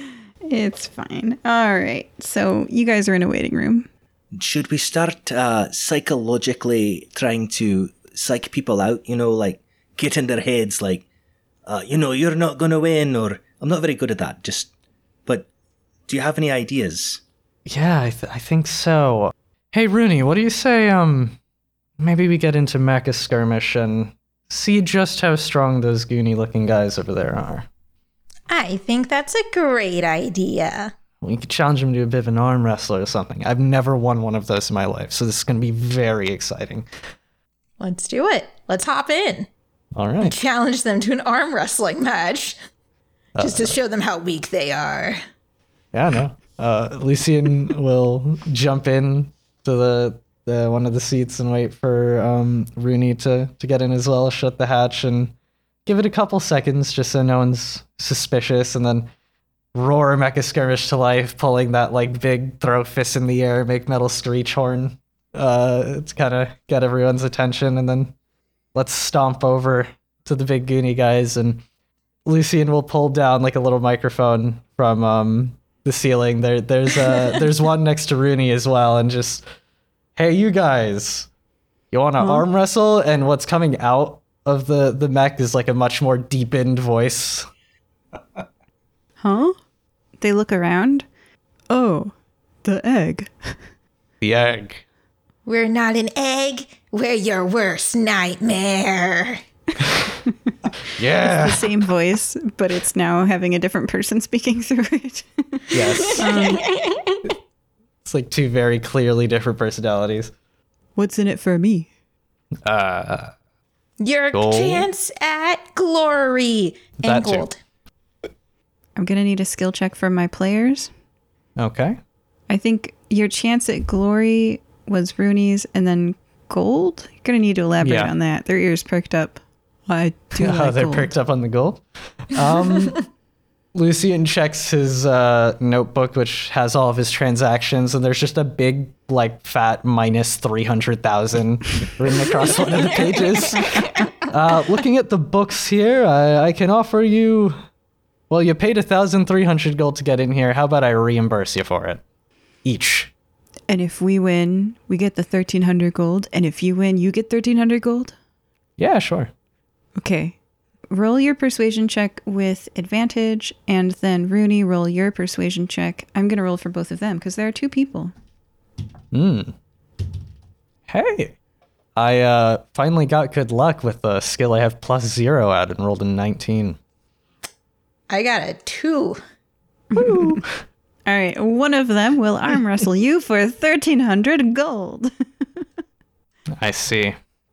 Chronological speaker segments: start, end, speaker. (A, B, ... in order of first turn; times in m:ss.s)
0:00.5-0:03.9 A
0:04.3-0:11.0 B
0:11.6-0:14.7 B
0:16.1-0:17.2 B
0:17.6-0:21.4 C
0:22.0-0:27.7 C
0:28.5-0:30.9 D
0:31.2-0:36.9 C
0:37.8-0:39.5 D
0:39.9-0:40.3 C
0:40.2-0:42.6 D
0:43.4-0:43.8 C
0:43.4-0:45.2 D
0:45.9-0:55.3 C
0:55.8-0:59.1 C
0:59.7-1:08.1 C
1:08.7-1:11.6 C
1:12.2-1:19.4 C
1:20.2-1:21.3 C
1:21.9-1:27.5 C
1:22.2-1:22.4 A
1:29.2-1:29.6 A
1:30.2-1:31.0 A
1:31.7-1:32.1 A
1:32.6-1:33.6 A
1:34.2-1:34.8 C
1:35.4-1:39.4 D
1:41.0-1:41.8 C
1:41.2-1:46.6 A
1:45.7-1:46.3 C
1:46.3-1:47.2 D
1:48.0-1:50.3 C
1:51.0-1:51.9 A
1:52.6-1:53.3 C
1:54.0-1:57.6 D
1:54.3-1:54.9 C
1:57.0-1:57.5 C
1:59.0-2:00.9 A
2:01.6-2:02.0 C
2:02.5-2:11.1 A
2:07.8-2:08.1 C
2:10.4-2:13.0 C
2:13.7-2:27.6 C
2:28.3-2:32.0 C
2:32.6-2:33.1 C
2:33.7-2:38.1 A
2:38.8-2:39.3 C
2:40.0-2:40.4 A
2:40.9-2:48.1 A
2:49.1-2:49.5 C
2:50.9-2:51.3 C
2:52.0-2:56.8 C
2:58.1-2:59.2 D
2:59.9-3:00.4 A
3:00.0-3:00.4 C
3:01.0-3:05.6 A
3:06.6-3:07.2 C